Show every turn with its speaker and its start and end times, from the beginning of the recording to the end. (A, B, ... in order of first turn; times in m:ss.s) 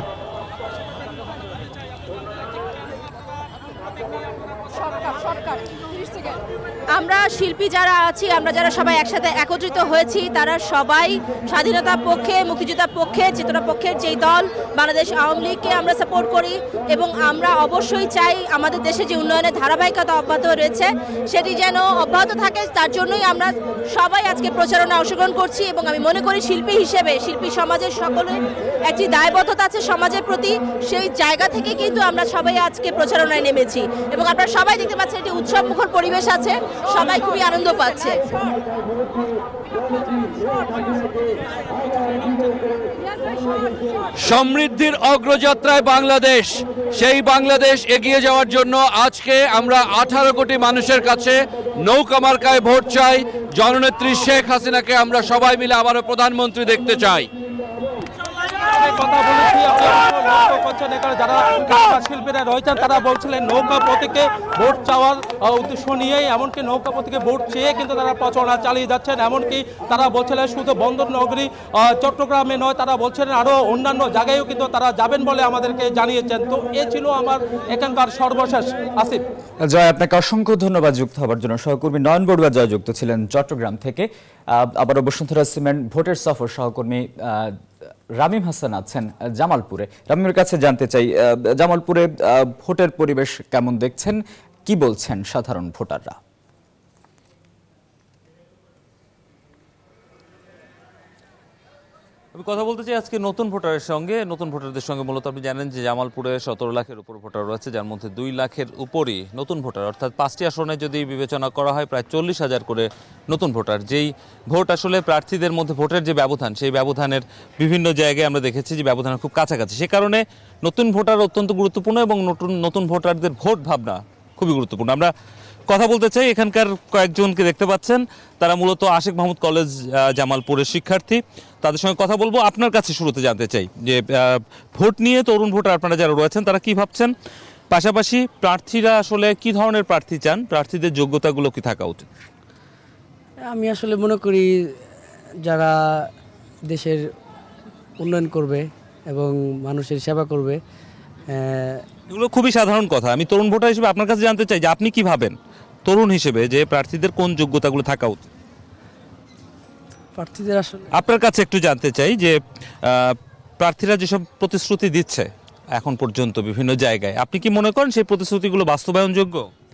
0:06.9-0:38.2 A
0:44.2-0:57.3 B
0:58.8-1:19.2 C
1:19.6-1:27.6 D
1:28.2-1:36.2 D
1:42.3-2:05.1 E
2:05.7-2:17.1 E
2:17.7-2:22.1 E
2:23.6-2:24.4 F
2:28.1-2:28.5 F
2:29.2-2:30.5 F
2:32.1-2:38.3 E
2:41.0-2:49.5 E